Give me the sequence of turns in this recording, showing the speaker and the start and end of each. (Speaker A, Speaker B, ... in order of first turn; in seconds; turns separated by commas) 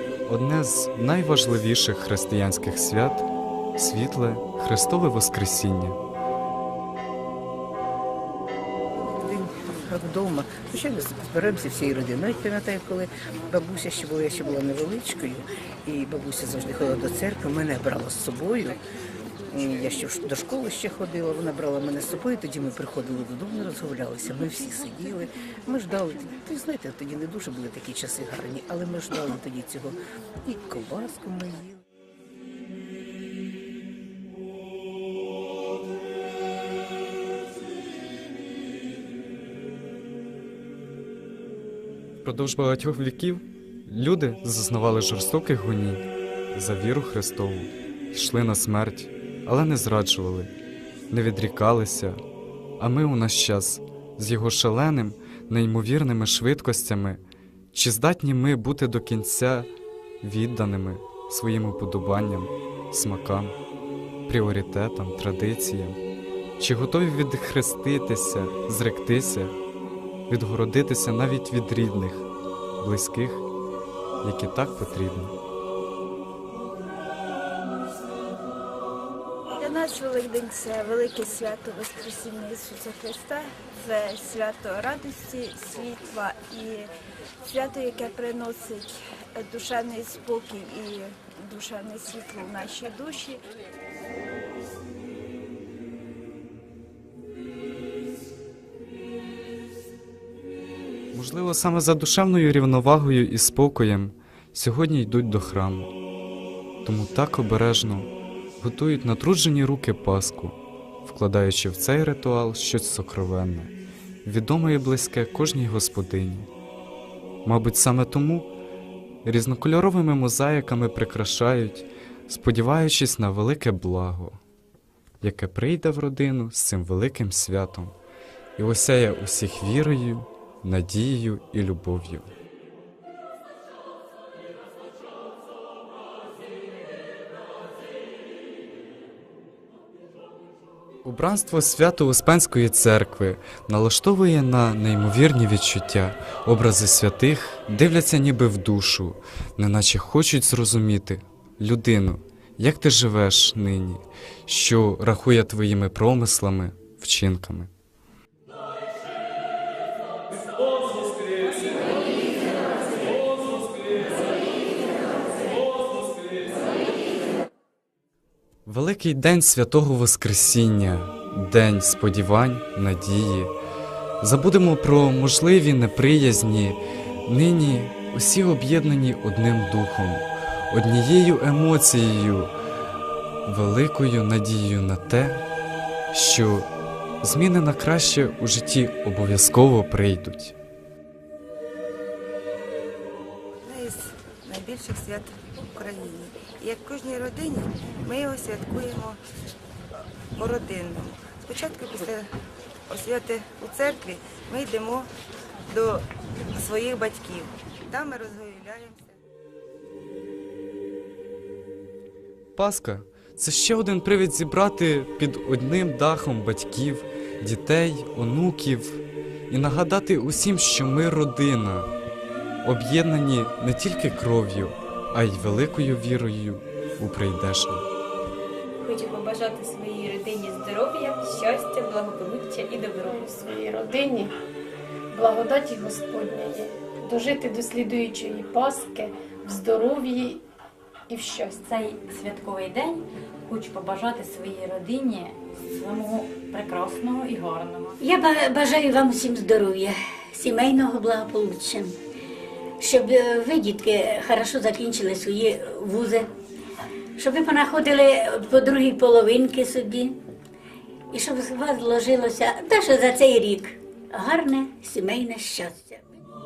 Speaker A: 0.2-6.0, Speaker B: 9.1-18.8, Speaker B: 19.5-31.8, Speaker A: 42.2-50.5, Speaker A: 51.1-52.2, Speaker A: 52.8-57.2, Speaker A: 57.7-59.7, Speaker A: 60.2-63.5, Speaker A: 64.3-66.0, Speaker A: 66.6-69.5, Speaker A: 70.3-73.4, Speaker A: 74.2-75.4, Speaker C: 79.6-86.9, Speaker C: 87.4-93.4, Speaker A: 101.1-105.9, Speaker A: 106.8-113.7, Speaker A: 114.2-116.5, Speaker A: 117.4-118.5, Speaker A: 119.2-124.4, Speaker A: 125.2-128.0, Speaker A: 128.6-132.3, Speaker A: 141.0-157.7, Speaker A: 168.7-173.6, Speaker A: 174.2-182.5, Speaker A: 183.5-185.4, Speaker A: 186.1-186.7, Speaker A: 187.2-190.6, Speaker D: 193.7-199.2, Speaker D: 200.4-202.2, Speaker D: 202.9-205.1, Speaker D: 205.7-209.2, Speaker A: 212.6-221.9, Speaker A: 222.6-227.9, Speaker E: 228.8-233.3, Speaker F: 233.1-234.3, Speaker F: 235.1-240.4, Speaker F: 241.1-241.6, Speaker G: 241.5-248.0, Speaker H: 248.0-252.0, Speaker H: 252.8-256.3, Speaker H: 257.2-260.2, Speaker H: 261.1-266.0